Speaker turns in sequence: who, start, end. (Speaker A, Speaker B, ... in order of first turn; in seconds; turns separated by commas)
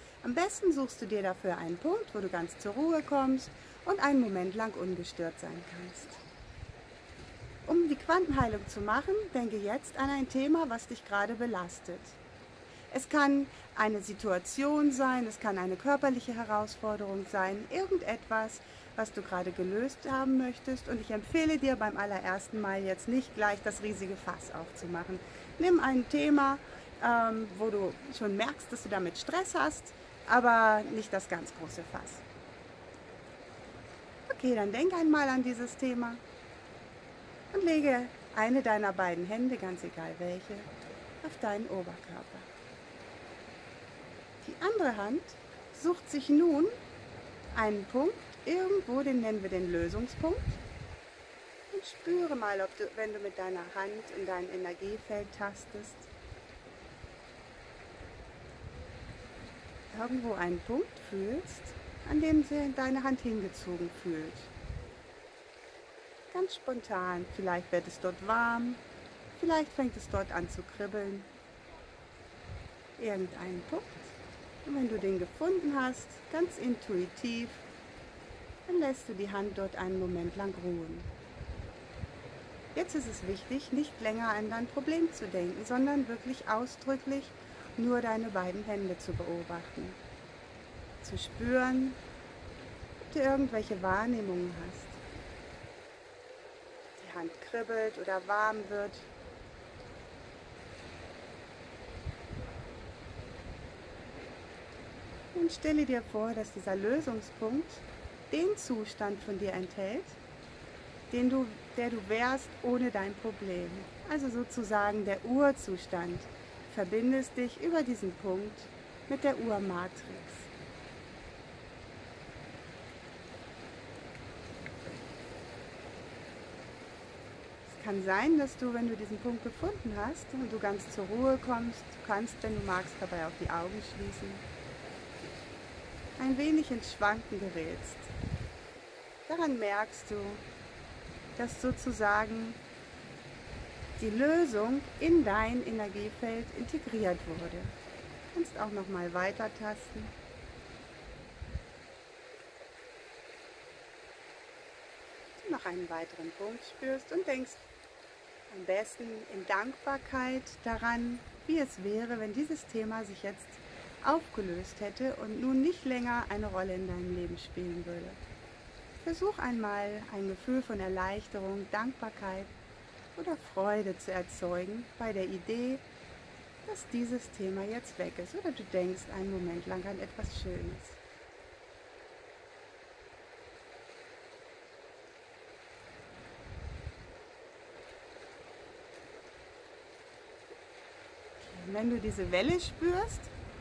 Speaker A: 0.2-6.2, Speaker A: 7.7-12.2, Speaker A: 12.9-32.2, Speaker A: 34.3-36.2, Speaker A: 37.5-40.7, Speaker A: 41.2-42.5, Speaker A: 44.4-46.8, Speaker A: 47.5-50.6, Speaker A: 51.7-56.1, Speaker A: 59.9-64.5, Speaker A: 66.3-68.8, Speaker A: 69.4-71.3, Speaker A: 73.0-77.7, Speaker A: 78.7-81.1, Speaker A: 82.7-90.0, Speaker A: 91.0-92.0, Speaker A: 93.0-95.0, Speaker A: 97.0-99.1, Speaker A: 105.3-110.2, Speaker A: 111.1-120.5, Speaker A: 127.7-134.4, Speaker A: 136.2-138.1, Speaker A: 139.3-140.4, Speaker A: 141.4-142.6, Speaker A: 144.0-147.7, Speaker A: 148.3-150.1, Speaker A: 155.4-157.6, Speaker A: 158.5-168.2, Speaker A: 169.0-172.5, Speaker A: 173.2-175.8, Speaker A: 176.7-181.0, Speaker A: 191.4-193.3